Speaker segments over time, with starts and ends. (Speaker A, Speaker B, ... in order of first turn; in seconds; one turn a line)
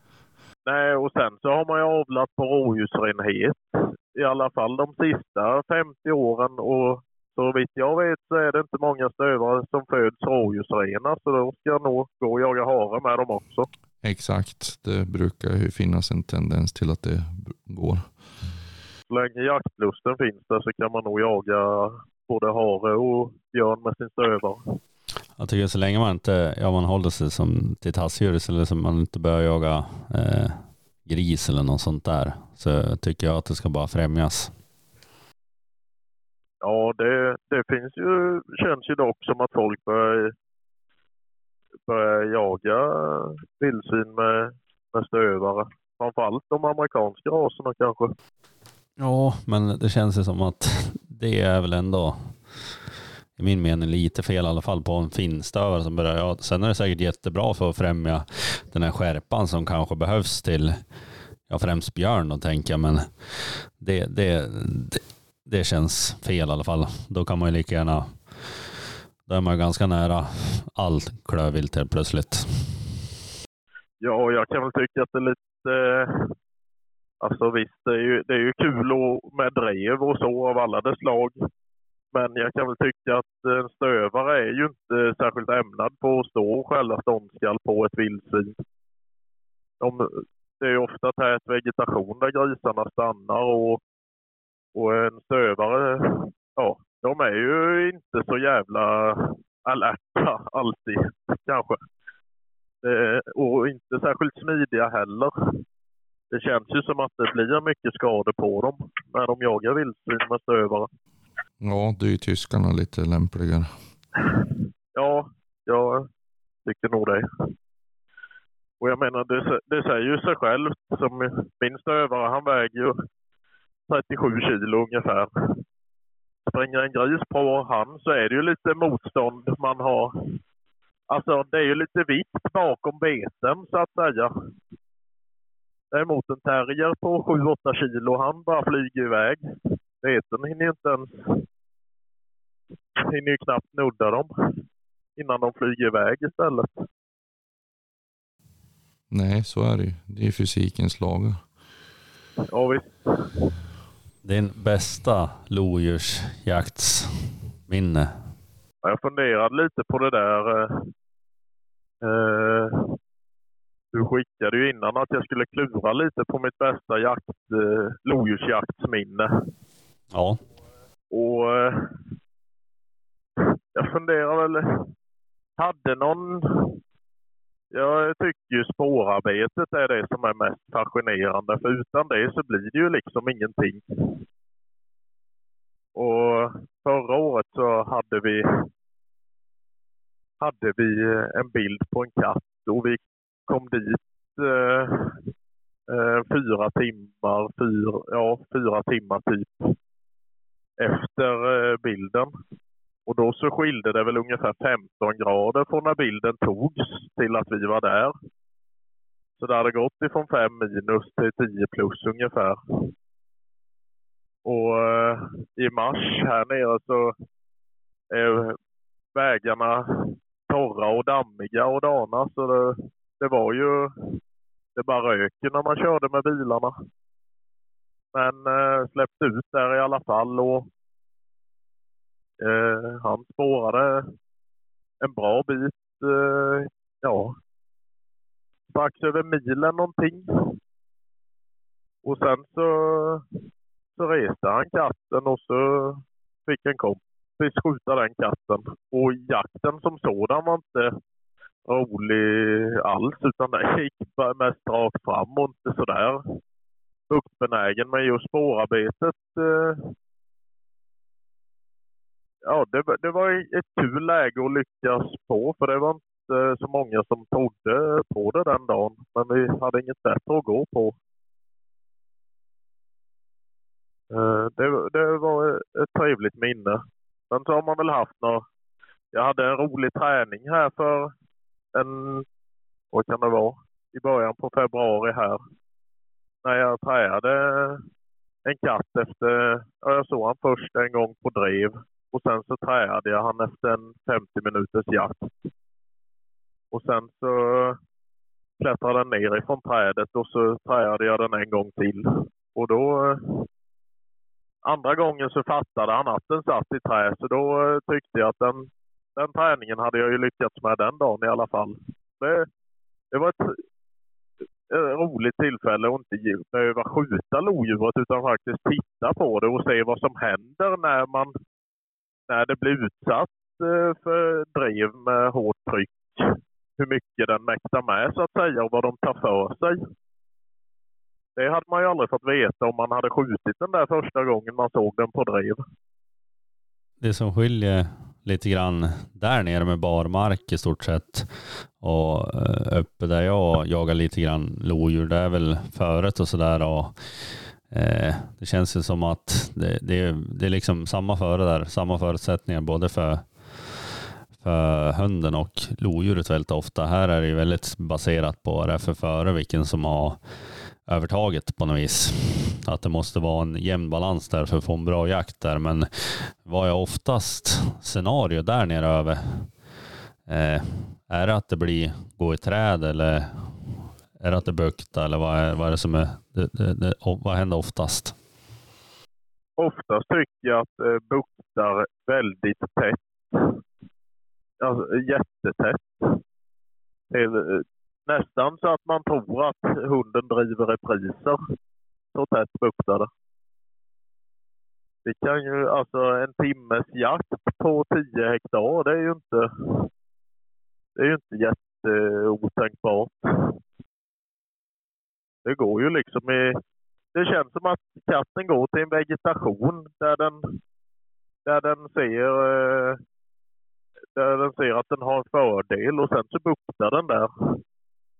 Speaker A: 0.7-13.7
Speaker B: 14.0-18.1
Speaker A: 19.1-24.6
Speaker C: 25.4-34.5
Speaker A: 36.6-40.3
Speaker A: 41.9-48.1
Speaker C: 49.0-52.8
Speaker C: 53.4-60.8
Speaker C: 61.5-68.7
Speaker C: 69.2-72.9
Speaker A: 74.0-76.3
Speaker A: 77.2-81.3
Speaker A: 82.1-88.6
Speaker A: 89.8-93.8
Speaker A: 94.7-101.8
Speaker A: 102.8-105.3
Speaker A: 106.3-110.9
Speaker B: 111.6-113.7
Speaker A: 114.9-116.1
Speaker A: 116.6-117.2
Speaker A: 118.8-123.0
Speaker A: 123.9-125.3
Speaker A: 126.5-130.1
Speaker A: 131.1-134.3
Speaker A: 135.9-141.4
Speaker A: 142.9-144.3
Speaker A: 145.2-146.8
Speaker B: 149.1-151.4
Speaker A: 152.5-153.5
Speaker C: 154.2-158.1
Speaker A: 158.8-160.9
Speaker A: 162.0-162.9
Speaker A: 163.9-169.3
Speaker C: 170.1-170.4
Speaker A: 171.1-171.9
Speaker A: 173.4-174.6
Speaker A: 175.6-176.8
Speaker A: 177.7-183.8
Speaker A: 185.9-188.4
Speaker A: 190.4-195.2
Speaker A: 195.9-199.7
Speaker A: 200.8-202.3
Speaker A: 203.1-208.1
Speaker A: 209.4-212.6
Speaker A: 214.4-217.1
Speaker A: 218.1-218.6
Speaker A: 219.1-223.9
Speaker A: 224.8-226.7
Speaker A: 228.1-230.7
Speaker A: 232.4-234.1
Speaker A: 235.0-237.3
Speaker A: 238.7-240.2
Speaker A: 242.0-243.2
Speaker A: 243.9-250.9
Speaker A: 251.7-256.2
Speaker A: 257.1-259.9
Speaker A: 262.4-270.9
Speaker A: 274.1-278.4
Speaker A: 279.1-281.1
Speaker A: 281.7-282.2
Speaker A: 282.9-285.4
Speaker A: 286.4-287.8
Speaker A: 288.4-295.3
Speaker A: 296.7-297.8
Speaker A: 298.6-303.4
Speaker A: 304.6-312.5
Speaker A: 313.1-313.6
Speaker A: 314.7-321.3
Speaker A: 322.3-329.8
Speaker A: 331.4-335.6
Speaker C: 337.0-369.5
Speaker C: 370.3-378.1
Speaker A: 379.6-383.5
Speaker A: 384.6-386.1
Speaker A: 387.1-391.4
Speaker A: 392.1-393.1
Speaker A: 395.0-399.8
Speaker A: 401.0-403.5
Speaker A: 405.4-406.6
Speaker A: 407.1-410.4
Speaker A: 411.4-413.0
Speaker A: 414.1-417.3